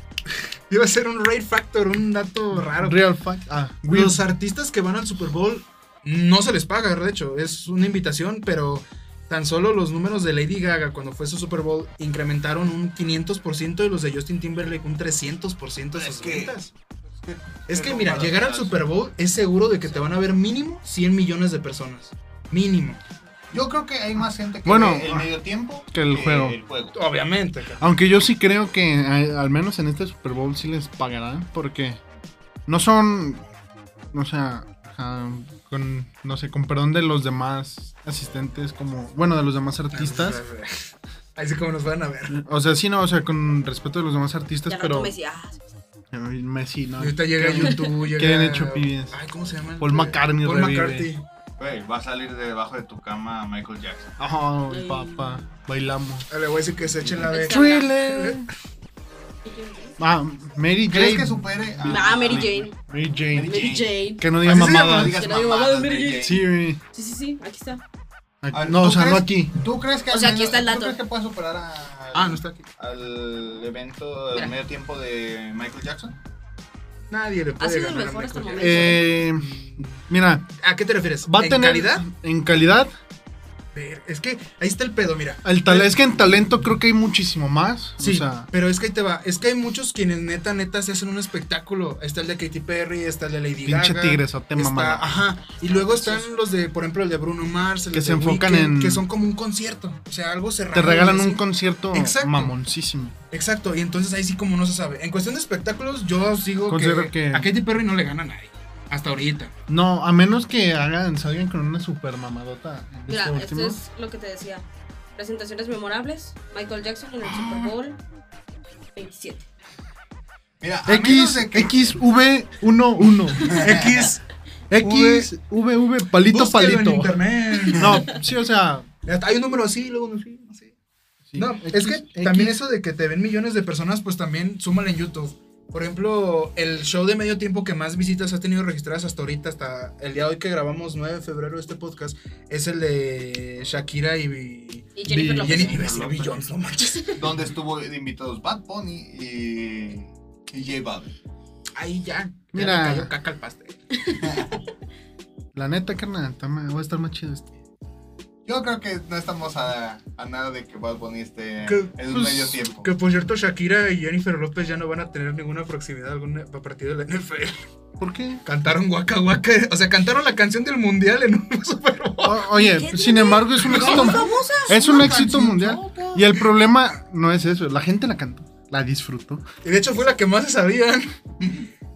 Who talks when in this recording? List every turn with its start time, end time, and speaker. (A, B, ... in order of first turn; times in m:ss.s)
0:00.3-0:03.0 A
0:02.7-0:04.2 B
0:03.9-0:16.7 A
0:16.0-0:16.6 C
0:17.1-0:18.9 C
0:17.7-0:23.0 A
0:23.5-0:27.0 C
0:24.6-0:25.3 B
0:25.9-0:26.6 B
0:26.9-0:27.8 A
0:27.8-0:32.0 B
0:32.7-0:33.4 B
0:34.1-0:40.4 B
0:39.9-0:42.4 A
0:42.3-0:45.2 B
0:44.7-0:45.7 D
0:46.1-0:49.2 B
0:47.0-0:51.2 A
0:49.8-0:51.1 B
0:51.6-0:54.2 C
0:54.2-0:56.2 B
0:54.7-0:55.4 D
0:56.3-0:58.4 A
0:57.2-0:57.9 D
0:57.4-0:58.5 B
0:59.4-1:00.0 D
1:00.0-1:05.2 B
1:00.9-1:02.7 C
1:01.8-1:02.7 D
1:03.3-1:06.4 C
1:03.4-1:06.4 D
1:06.2-1:06.8 B
1:06.9-1:07.8 D
1:08.4-1:09.5 B
1:08.5-1:16.1 C
1:10.1-1:11.0 D
1:12.1-1:12.6 A
1:17.1-1:20.0 A
1:17.6-1:19.0 D
1:18.5-1:20.5 B
1:20.6-1:22.0 A
1:21.2-1:22.9 B
1:23.7-1:26.1 A
1:25.4-1:28.5 B
1:28.0-1:42.5 A
1:33.6-1:35.1 B
1:35.7-1:36.2 D
1:37.9-1:39.0 B
1:40.7-1:43.1 B
1:43.3-1:49.5 A
1:46.7-1:47.5 B
1:49.7-1:53.8 B
1:53.1-1:58.0 D
1:57.4-1:57.7 C
1:59.0-1:59.4 D
2:00.6-2:01.9 C
2:00.8-2:03.7 B
2:03.4-2:03.9 C
2:03.4-2:04.2 A
2:04.7-2:08.9 B
2:04.8-2:05.3 A
2:06.2-2:08.0 A
2:09.0-2:10.7 A
2:11.3-2:12.6 B
2:11.4-2:27.3 A
2:25.0-2:25.8 D
2:25.1-2:25.6 B
2:25.5-2:26.6 C
2:27.2-2:31.1 C
2:31.8-2:33.8 A
2:32.5-2:33.1 B
2:34.2-2:34.6 C
2:35.5-2:37.6 B
2:38.4-2:42.9 C
2:41.6-2:41.9 A
2:42.1-2:42.6 B
2:42.8-2:47.6 A
2:48.0-2:48.4 B
2:48.4-2:52.4 A
2:52.2-2:59.4 B
2:52.5-2:54.8 D
2:53.7-2:56.4 C
2:59.6-3:01.1 A